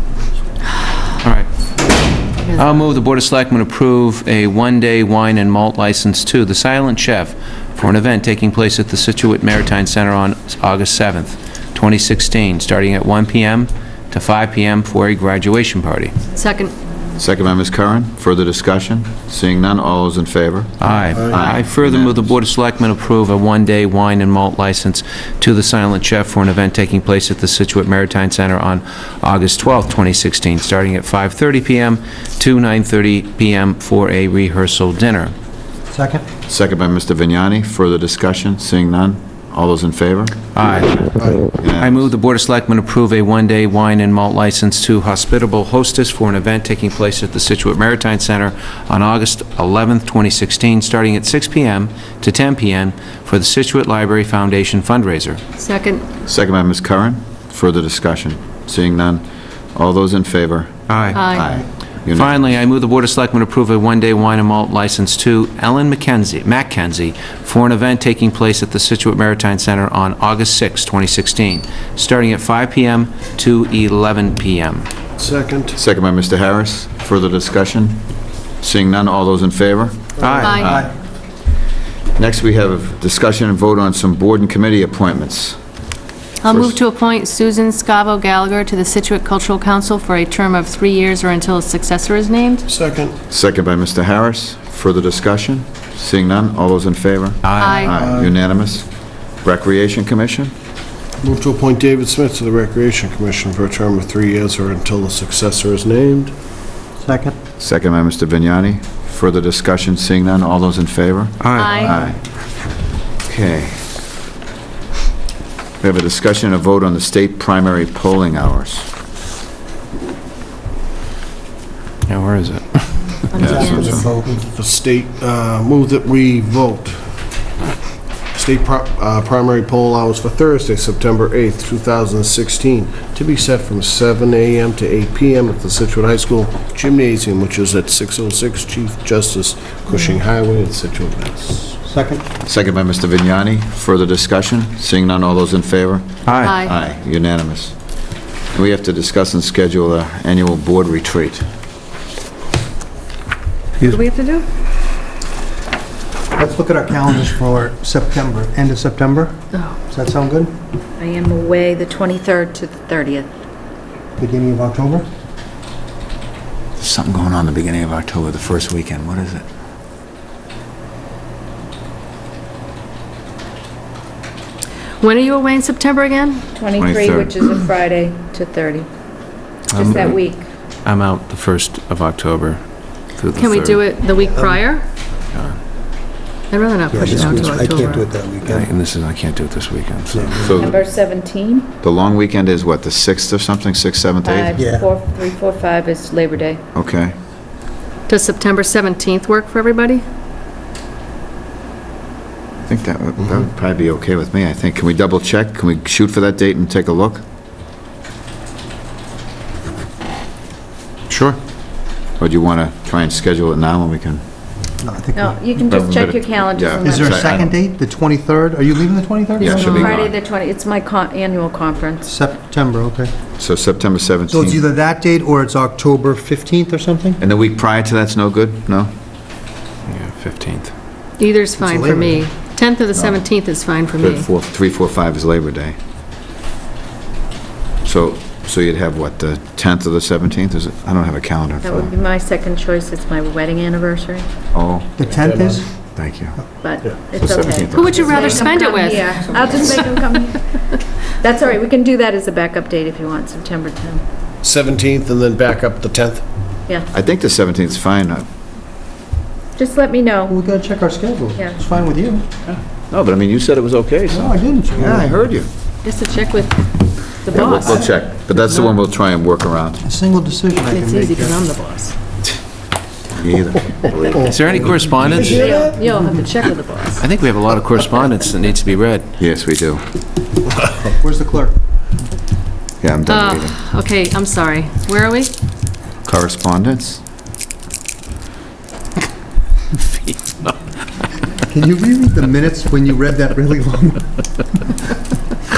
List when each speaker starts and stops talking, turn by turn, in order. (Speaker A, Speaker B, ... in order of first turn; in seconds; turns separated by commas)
Speaker A: 2.5-2.8, Speaker B: 2.5-16.1, Speaker A: 16.3-16.7, Speaker C: 17.2-22.3, Speaker B: 20.8-35.3, Speaker D: 35.9-36.2, Speaker C: 36.5-40.3, Speaker B: 40.5-41.1, Speaker E: 41.2-41.5, Speaker C: 41.6-42.1, Speaker B: 41.8-55.4, Speaker A: 55.6-56.0, Speaker C: 56.2-62.4, Speaker B: 60.9-61.2, Speaker A: 61.1-61.5, Speaker B: 62.1-74.9, Speaker E: 75.2-75.8, Speaker C: 75.7-78.0, Speaker C: 78.6-80.9, Speaker B: 80.2-80.6, Speaker A: 80.4-80.7, Speaker D: 80.5-80.9, Speaker C: 82.1-85.6, Speaker A: 86.4-92.6, Speaker C: 86.5-86.7, Speaker E: 92.7-93.2, Speaker C: 93.3-98.9, Speaker B: 97.4-97.8, Speaker A: 97.6-97.9, Speaker E: 97.8-98.3, Speaker C: 99.4-100.5, Speaker E: 101.2-106.3, Speaker D: 107.0-107.3, Speaker C: 107.6-112.2, Speaker B: 111.4-111.8, Speaker A: 111.5-112.0, Speaker C: 113.2-113.8, Speaker C: 115.8-118.9, Speaker B: 122.1-123.2, Speaker A: 123.3-124.1, Speaker C: 123.3-124.0, Speaker D: 123.4-124.4, Speaker E: 124.2-127.2, Speaker E: 128.3-141.8, Speaker D: 141.8-142.2, Speaker C: 142.4-147.8, Speaker B: 146.2-146.6, Speaker A: 146.4-146.7, Speaker C: 148.5-151.4, Speaker A: 153.9-154.4, Speaker D: 156.3-159.3, Speaker D: 159.9-160.5, Speaker F: 161.0-163.3, Speaker D: 164.2-165.0, Speaker C: 166.8-169.4, Speaker A: 175.0-176.4, Speaker F: 176.5-178.9, Speaker C: 176.8-177.4, Speaker F: 179.7-180.4, Speaker B: 179.8-180.0, Speaker B: 180.8-183.8, Speaker A: 183.3-184.8, Speaker D: 184.2-184.6, Speaker A: 186.5-188.1, Speaker D: 186.9-188.7, Speaker B: 187.1-187.7, Speaker B: 188.4-190.5, Speaker D: 190.1-190.6, Speaker C: 190.4-190.8, Speaker F: 190.5-191.7, Speaker C: 191.8-194.6, Speaker F: 194.2-196.6, Speaker D: 194.6-194.9, Speaker C: 196.7-197.1, Speaker A: 198.1-200.0, Speaker C: 202.6-207.2, Speaker B: 211.1-211.4, Speaker C: 212.2-214.2, Speaker D: 214.8-215.7, Speaker F: 215.1-217.4, Speaker C: 215.7-217.5, Speaker D: 216.8-219.9, Speaker C: 219.4-220.1, Speaker A: 219.4-219.9, Speaker F: 219.5-222.1, Speaker D: 222.0-223.1, Speaker C: 223.4-224.6, Speaker D: 224.3-227.2, Speaker C: 227.2-228.9, Speaker B: 229.9-230.7, Speaker A: 231.2-234.3, Speaker D: 231.6-232.3, Speaker C: 232.9-233.2, Speaker C: 234.0-235.8, Speaker C: 237.8-241.9, Speaker F: 241.6-244.3, Speaker C: 244.5-244.9, Speaker D: 245.0-245.7, Speaker E: 245.1-245.6, Speaker C: 245.9-246.4, Speaker F: 246.6-254.0, Speaker C: 247.1-248.5, Speaker A: 247.7-249.9, Speaker E: 254.4-256.2, Speaker C: 256.9-258.2, Speaker F: 259.6-260.3, Speaker D: 260.3-262.2, Speaker C: 262.5-265.5, Speaker D: 264.1-265.1, Speaker A: 265.8-266.7, Speaker F: 267.2-267.8, Speaker A: 267.3-267.8, Speaker C: 267.3-269.8, Speaker D: 267.6-267.9, Speaker D: 269.8-271.5, Speaker A: 270.6-271.9, Speaker C: 273.1-275.1, Speaker D: 274.1-276.2, Speaker B: 274.2-275.6, Speaker F: 275.2-277.0, Speaker B: 277.0-279.1, Speaker C: 279.2-279.8, Speaker D: 280.9-281.5, Speaker C: 282.8-283.6, Speaker A: 283.1-285.3, Speaker C: 286.0-287.0, Speaker B: 289.8-290.5, Speaker D: 291.4-294.0